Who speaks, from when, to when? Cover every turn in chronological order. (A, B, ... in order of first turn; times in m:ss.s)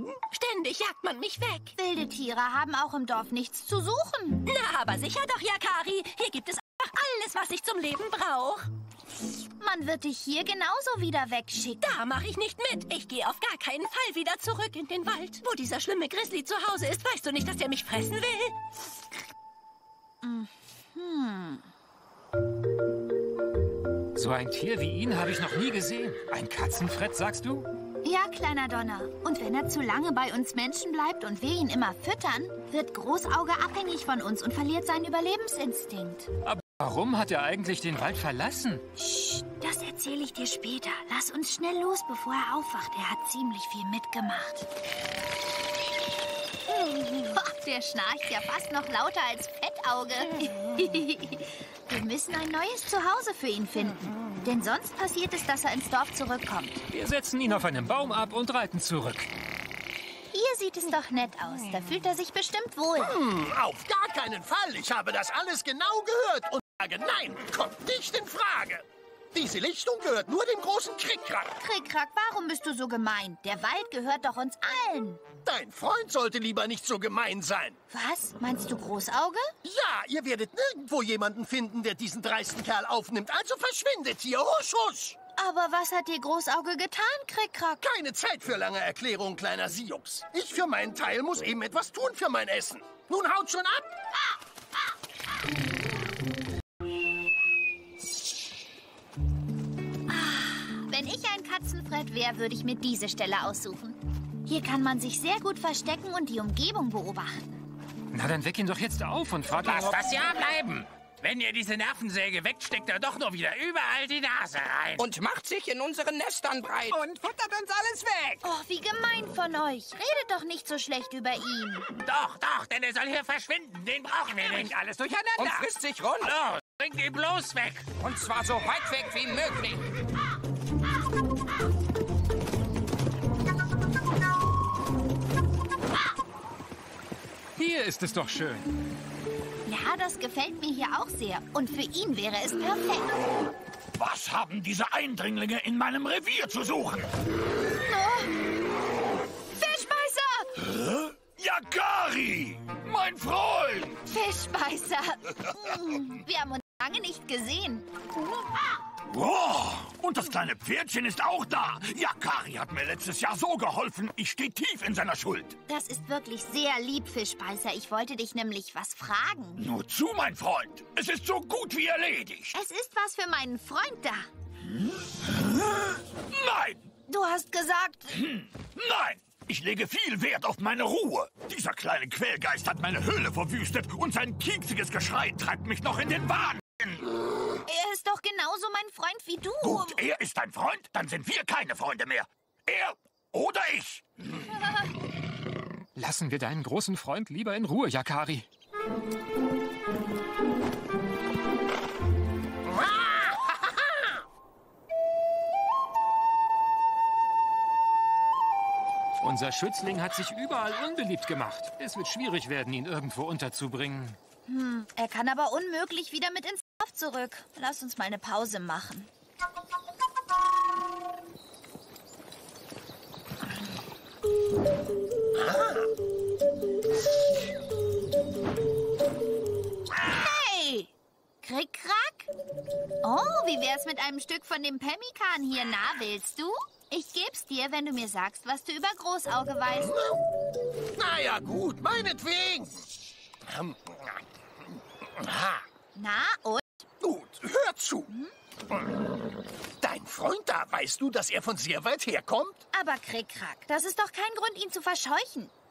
0:00.3-0:01.7 A
0:01.8-0:04.4 B
0:04.4-0:08.6 A
0:09.6-0:12.0 B
0:11.8-0:18.6 A
0:20.2-0:21.6 B
0:24.2-0:27.7 C
0:28.0-0:36.3 B
0:36.4-0:38.8 C
0:39.0-0:44.7 B
0:46.8-0:56.8 B
0:56.9-0:59.3 C
1:00.3-1:03.2 B
1:03.0-1:11.5 D
1:11.6-1:15.2 B
1:15.4-1:17.8 D
1:17.9-1:19.5 B
1:19.6-1:25.2 D
1:25.4-1:27.8 B
1:27.8-1:34.0 D
1:40.1-1:47.5 B
1:48.1-1:50.2 C
1:49.6-1:55.1 E
1:55.0-1:57.8 F
1:56.9-1:58.4 E
1:58.4-2:01.8 B
2:01.9-2:05.7 E
2:04.5-2:04.8 F
2:05.3-2:06.3 F
2:06.2-2:08.0 E
2:08.0-2:09.8 F
2:17.6-2:18.6 C
2:19.6-2:23.2 B
2:24.0-2:27.1 G
2:27.8-2:28.3 B
2:29.6-2:30.6 B
2:30.8-2:34.0 G
2:34.1-2:37.9 B
2:39.1-2:45.6 G
2:45.7-2:49.6 B
2:49.6-2:52.5 G
2:52.5-2:54.3 B
2:55.3-2:56.8 G
2:57.1-2:58.2 B
2:58.1-3:07.1 G
3:07.6-3:10.0 B
3:09.6-3:14.4 G
3:16.0-3:18.4 C
3:29.2-3:34.2 C
3:34.5-3:39.1 B
3:45.4-3:45.9 D
3:50.0-3:50.9 B
3:51.4-3:52.3 B
3:53.0-3:59.9 B
3:59.8-4:00.2 D
4:01.0-4:02.8 D
4:03.5-4:04.2 D
4:05.2-4:05.6 D
4:05.9-4:06.8 B
4:07.0-4:08.1 D
4:09.8-4:12.6 D
4:12.7-4:15.5 B